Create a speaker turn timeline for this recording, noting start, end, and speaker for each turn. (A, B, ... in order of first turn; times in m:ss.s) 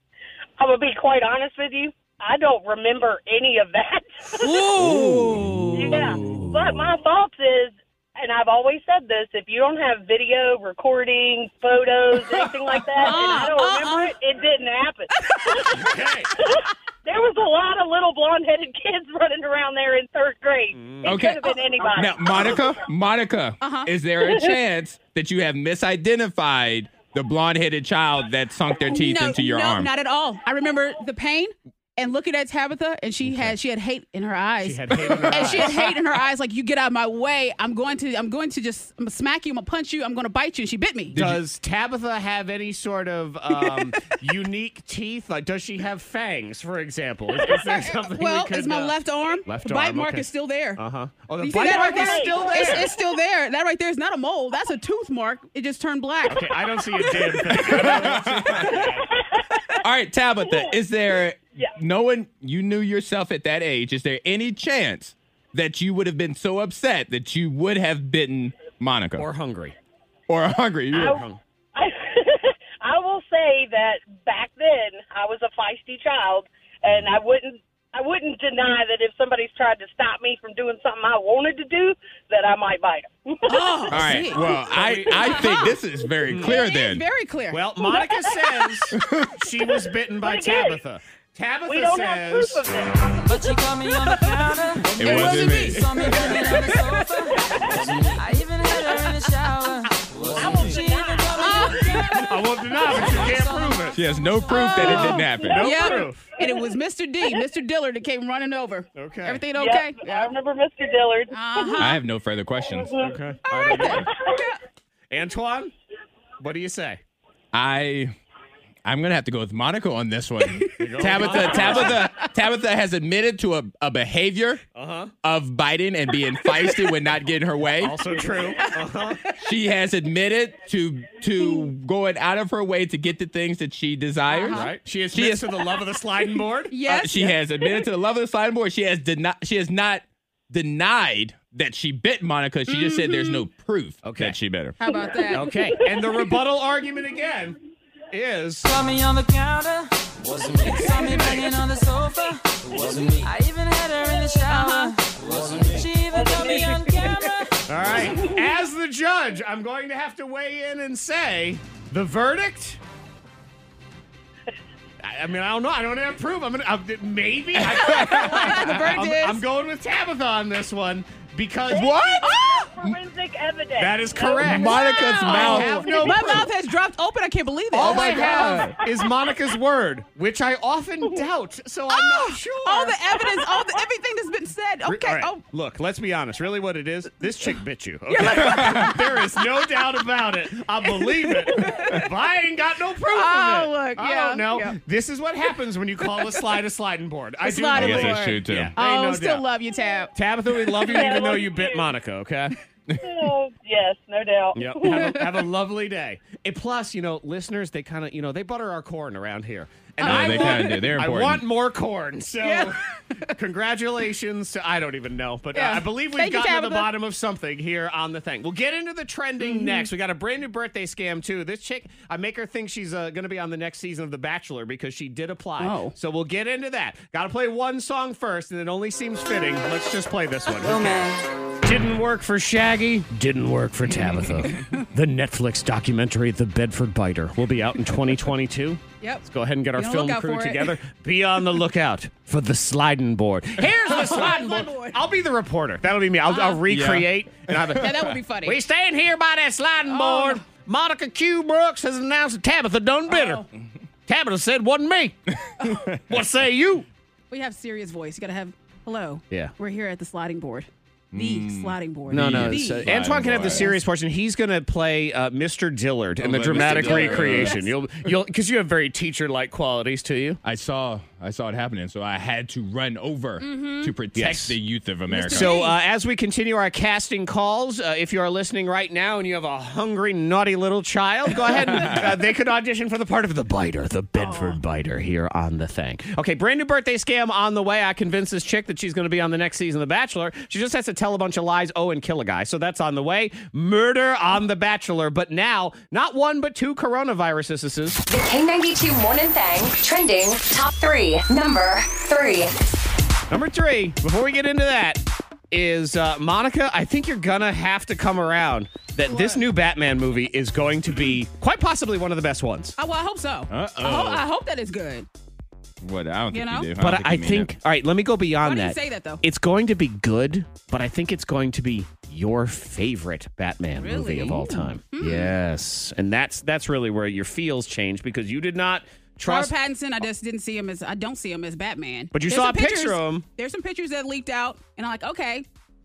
0:00.6-0:04.7 A
0:04.4-0:06.1 B
0:04.8-0:06.4 C
0:04.8-0:06.5 D
0:05.8-0:22.6 A
0:13.0-0:14.1 B
0:15.2-0:15.7 B
0:15.7-0:16.3 D
0:20.7-0:21.2 D
0:21.0-0:29.9 C
0:23.6-0:23.9 B
0:28.9-0:41.2 B
0:33.2-0:33.5 D
0:34.6-0:35.8 D
0:35.1-0:35.8 C
0:41.1-0:52.9 D
0:41.1-0:41.4 C
0:47.8-0:50.8 B
0:51.4-0:57.9 B
0:51.6-0:52.7 A
0:56.3-0:59.1 D
0:57.5-0:58.8 C
0:58.8-0:59.4 A
0:59.8-1:09.3 C
1:09.2-1:09.8 D
1:10.3-1:11.2 C
1:10.9-1:11.2 A
1:11.0-1:11.4 D
1:11.8-1:23.8 A
1:23.5-1:25.8 B
1:23.9-1:27.0 C
1:24.7-1:25.4 D
1:26.3-1:26.6 D
1:26.3-1:28.0 B
1:27.5-1:32.6 D
1:28.9-1:29.3 C
1:30.2-1:30.8 A
1:31.7-1:33.2 A
1:33.2-1:44.5 E
1:34.9-1:35.6 D
1:35.0-1:36.0 C
1:35.0-1:35.8 B
1:37.3-1:37.8 A
1:40.4-1:42.0 A
1:41.4-1:42.4 B
1:42.2-1:44.0 D
1:43.9-1:45.9 C
1:44.5-1:50.0 B
1:44.7-1:46.2 D
1:46.4-1:46.7 A
1:49.0-1:49.4 D
1:49.6-1:51.9 A
1:50.0-1:50.3 D
1:51.3-1:52.0 B
1:51.8-1:52.9 C
1:52.7-1:53.2 A
1:53.0-1:54.1 D
1:53.5-1:54.6 B
1:53.8-1:54.4 A
1:55.1-1:55.7 D
1:56.4-1:57.0 D
1:57.5-1:58.1 C
1:58.8-2:04.6 C
2:00.8-2:02.1 D
2:01.0-2:02.2 B
2:04.8-2:05.1 D
2:05.2-2:08.0 C
2:06.5-2:06.9 B
2:07.8-2:09.2 D
2:08.6-2:09.4 B
2:09.4-2:15.6 C
2:14.3-2:14.7 B
2:14.5-2:16.8 D
2:16.7-2:17.4 B
2:16.9-2:24.8 C
2:22.7-2:23.4 B
2:24.0-2:24.4 D
2:24.8-2:25.6 B
2:25.3-2:27.6 D
2:28.1-2:28.7 D
2:28.6-2:37.6 E
2:34.5-2:34.9 B
2:36.1-2:37.3 A
2:37.7-2:42.8 D
2:38.1-2:38.5 A
2:45.0-2:52.0 D
2:47.7-2:49.4 B
2:47.7-2:48.8 C
2:51.7-2:55.3 A
2:51.8-2:52.9 C
2:53.8-2:56.5 D
2:54.4-2:56.4 C
2:54.5-2:58.7 B
2:57.7-3:03.0 D
2:57.8-2:58.5 C
2:58.5-2:58.9 A
3:01.9-3:05.4 B
3:04.9-3:19.4 D
3:08.1-3:09.4 B
3:08.4-3:08.9 C
3:11.0-3:12.1 B
3:13.1-3:14.8 B
3:17.4-3:21.3 B
3:17.8-3:18.7 C
3:20.1-3:22.6 D
3:20.9-3:21.9 A
3:23.0-3:25.2 A
3:24.6-3:51.1 D
3:24.9-3:25.2 B
3:30.0-3:30.9 B
3:30.0-3:31.4 C
3:32.4-3:33.3 B
3:35.5-3:36.9 B
3:39.4-3:39.9 B
3:45.6-3:45.9 B
3:50.6-3:51.2 B
3:51.6-4:13.4 D
3:54.5-3:54.8 B
3:59.0-4:00.8 B
4:03.8-4:05.0 B
4:06.3-4:06.6 B
4:06.7-4:08.1 C
4:07.8-4:08.6 B
4:09.9-4:10.4 B
4:13.1-4:13.5 B
4:14.1-4:15.2 D
4:15.3-4:16.0 C
4:16.1-4:16.9 D
4:17.3-4:23.8 B
4:21.1-4:23.7 C
4:22.1-4:30.4 D
4:26.2-4:27.6 C
4:26.5-4:27.7 B
4:30.4-4:35.6 C
4:33.4-4:33.9 B
4:34.2-4:34.6 D
4:35.1-4:35.8 B
4:35.3-4:58.0 D
4:41.7-4:42.1 C
4:44.2-4:44.6 B
4:58.1-5:02.6 F
5:03.3-5:12.8 D
5:09.1-5:09.4 B
5:12.8-5:15.1 B
5:13.5-5:14.2 C
5:15.8-5:17.5 C
5:16.3-5:16.7 B
5:16.8-5:29.5 D
5:18.4-5:19.2 B
5:23.8-5:25.3 B
5:29.2-5:35.4 B
5:32.1-5:33.2 D